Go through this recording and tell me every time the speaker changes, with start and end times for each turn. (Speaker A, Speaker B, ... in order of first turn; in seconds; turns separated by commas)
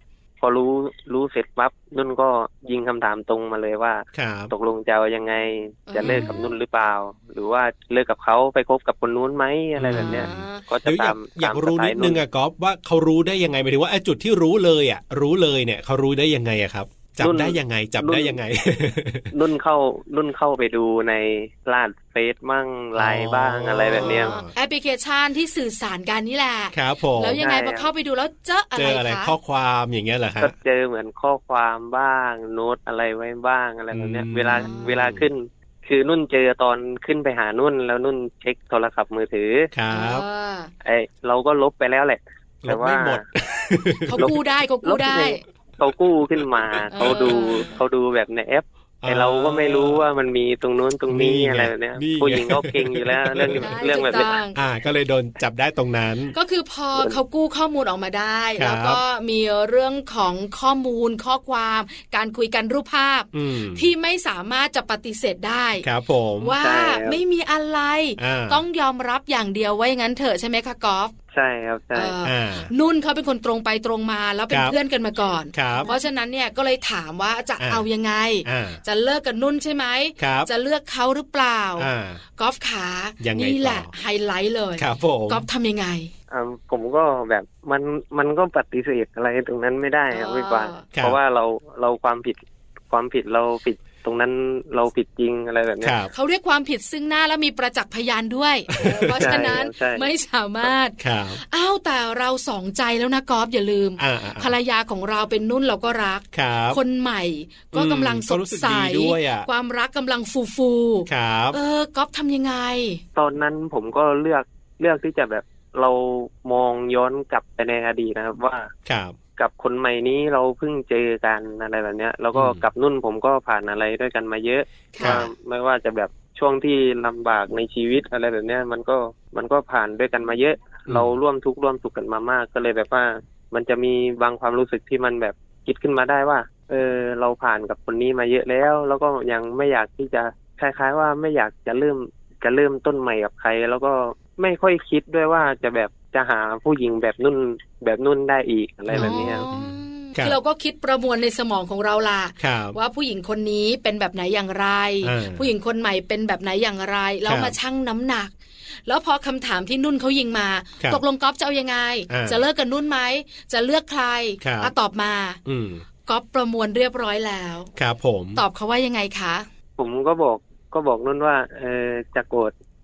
Speaker A: 0.4-12.2, Speaker B: 4.1-4.5, Speaker C: 5.9-6.6, Speaker B: 6.0-6.3, Speaker B: 9.8-19.3, Speaker C: 9.9-10.6, Speaker A: 17.2-18.4, Speaker A: 19.3-24.4, Speaker B: 22.9-24.5, Speaker C: 23.9-29.3, Speaker B: 26.7-27.4, Speaker A: 27.4-27.9, Speaker B: 28.8-30.5, Speaker A: 30.4-39.7, Speaker B: 33.9-35.3, Speaker C: 34.5-35.0, Speaker B: 39.7-40.2, Speaker C: 39.9-40.7, Speaker A: 40.8-43.2, Speaker B: 42.6-44.3, Speaker C: 44.1-45.4, Speaker A: 44.2-54.4, Speaker B: 46.4-47.2, Speaker C: 46.9-47.8, Speaker B: 49.0-50.0, Speaker B: 51.1-53.7, Speaker C: 53.6-54.6, Speaker B: 54.5-56.4, Speaker C: 56.3-65.9, Speaker B: 58.6-59.0, Speaker B: 63.3-63.9, Speaker B: 65.8-66.5, Speaker C: 66.4-71.1, Speaker A: 66.6-67.2, Speaker B: 68.2-68.6, Speaker A: 71.3-72.2, Speaker C: 71.9-86.1, Speaker B: 72.2-72.7, Speaker B: 74.5-74.8, Speaker B: 75.5-75.9, Speaker B: 77.6-77.8, Speaker B: 78.5-78.8, Speaker B: 80.2-80.5, Speaker B: 81.8-82.2, Speaker B: 83.2-83.9, Speaker B: 84.8-85.5, Speaker A: 86.3-96.0, Speaker C: 90.1-90.9, Speaker B: 95.8-96.1, Speaker C: 96.1-113.0, Speaker B: 98.7-99.6, Speaker A: 99.2-100.1, Speaker B: 101.0-101.4, Speaker B: 104.0-104.5, Speaker B: 106.3-106.8, Speaker B: 107.7-109.5, Speaker B: 111.1-111.6, Speaker A: 113.2-118.7, Speaker B: 118.9-119.2, Speaker A: 119.4-149.5, Speaker B: 122.3-122.6, Speaker C: 124.9-125.3, Speaker B: 125.0-125.3, Speaker B: 130.9-131.2, Speaker B: 148.9-150.4, Speaker C: 148.9-158.3, Speaker B: 152.4-152.8, Speaker B: 155.0-155.4, Speaker B: 157.2-157.6, Speaker C: 158.9-165.4, Speaker B: 162.1-162.4, Speaker B: 164.4-164.7, Speaker B: 165.5-165.8, Speaker C: 166.1-167.7, Speaker B: 167.8-168.4, Speaker C: 168.4-169.5, Speaker A: 169.8-172.5